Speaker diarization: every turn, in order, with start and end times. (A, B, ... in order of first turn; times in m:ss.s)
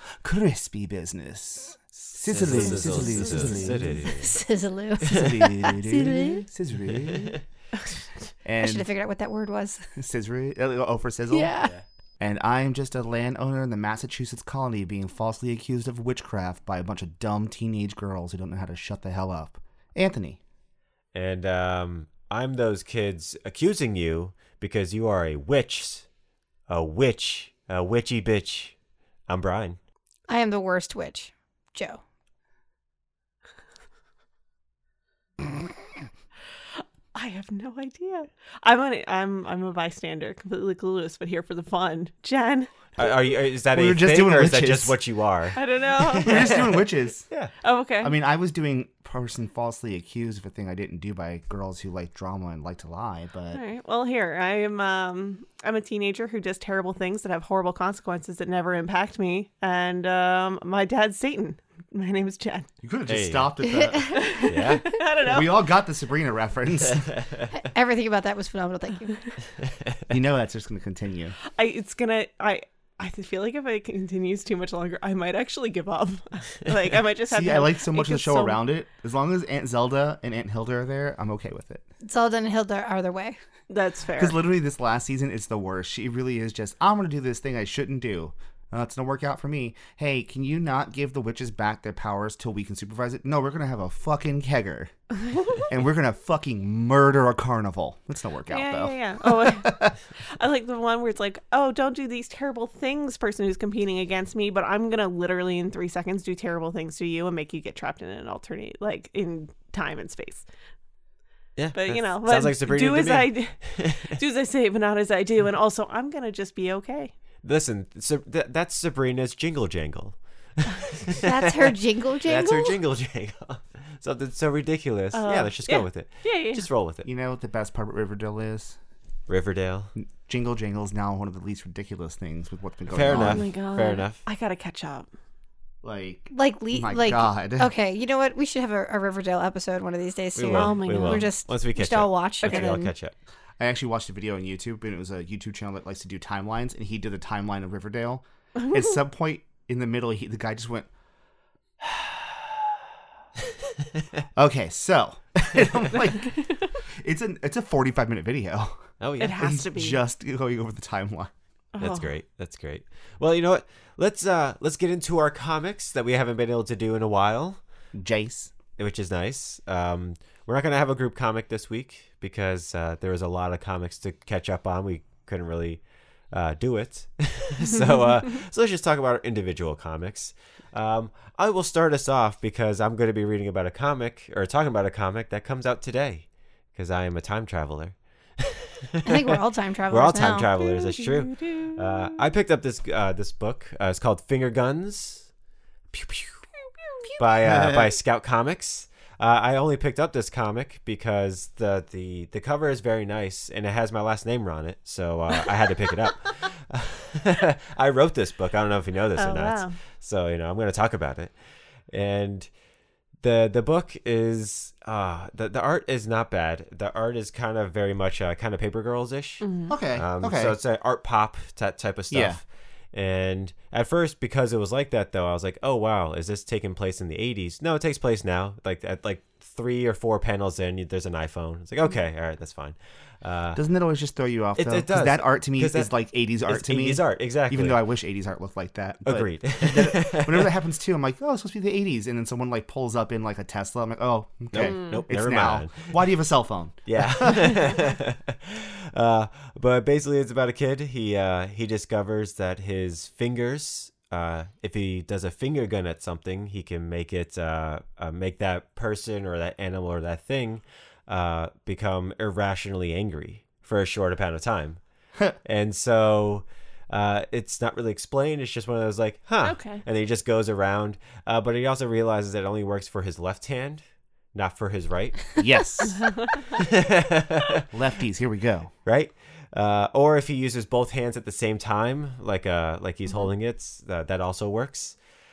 0:00.2-0:04.0 A
0:02.3-0:04.3 B
0:02.5-0:06.4 C
0:05.0-0:07.4 A
0:07.0-0:07.4 B
0:08.4-0:08.9 A
0:08.6-0:09.8 C
0:10.0-0:11.5 A
0:11.3-0:11.8 C
0:12.2-0:20.4 A
0:21.1-0:26.0 B
0:26.7-0:28.7 B
0:29.3-0:29.8 B
0:30.3-0:32.0 C
0:37.1-0:43.0 D
0:43.0-0:47.5 B
0:43.7-0:45.0 A
0:45.5-0:46.7 D
0:46.2-0:47.3 A
0:47.6-0:48.1 D
0:48.0-0:53.6 A
0:53.5-1:02.7 D
1:02.8-1:04.4 A
1:03.1-1:03.5 B
1:03.6-1:04.4 C
1:04.1-1:05.6 D
1:04.4-1:05.0 B
1:05.2-1:07.1 A
1:07.0-1:07.5 B
1:07.5-1:09.2 C
1:09.6-1:10.0 B
1:10.1-1:11.4 A
1:11.5-1:18.6 D
1:17.3-1:21.8 A
1:22.0-1:23.4 C
1:23.7-1:24.4 D
1:24.2-1:34.9 A
1:35.5-1:40.0 A
1:38.5-1:50.4 D
1:51.6-1:54.2 B
1:51.8-1:57.1 D
1:57.4-2:01.7 B
2:01.2-2:02.8 C
2:02.2-2:07.1 B
2:05.1-2:06.7 D
2:07.0-2:08.8 A
2:09.3-2:09.9 B
2:10.0-2:13.4 A
2:12.9-2:14.2 B
2:13.1-2:15.1 D
2:15.8-2:17.7 A
2:16.3-2:22.9 C
2:20.4-2:23.1 B
2:20.5-2:21.3 D
2:22.4-2:22.7 D
2:23.6-2:30.9 A
2:31.8-2:32.6 A
2:34.4-2:38.8 A
2:39.0-2:39.4 B
2:39.2-2:40.0 D
2:39.4-2:41.3 A
2:41.8-2:42.1 D
2:41.8-2:47.6 B
2:48.0-2:48.5 A
2:48.8-3:09.3 B
2:57.8-2:58.2 D
3:09.0-3:10.5 C
3:09.9-3:15.3 B
3:10.6-3:12.2 D
3:15.9-3:16.4 B
3:16.9-3:17.2 D
3:17.2-3:31.3 B
3:17.5-3:17.9 A
3:29.2-3:29.8 D
3:31.9-3:32.5 B
3:33.2-3:53.6 B
3:39.4-3:39.8 D
3:39.7-3:40.6 A
3:42.1-3:42.4 A
3:53.6-4:07.6 A
3:54.6-3:55.9 B
3:56.5-3:57.8 B
3:59.1-4:00.6 B
4:04.5-4:06.0 B
4:04.6-4:05.1 D
4:06.9-4:24.8 B
4:25.4-4:35.4 B
4:29.4-4:29.8 D
4:35.4-4:36.1 A
4:35.9-4:36.5 D
4:36.6-4:37.6 B
4:37.7-4:38.7 A
4:38.8-4:45.0 B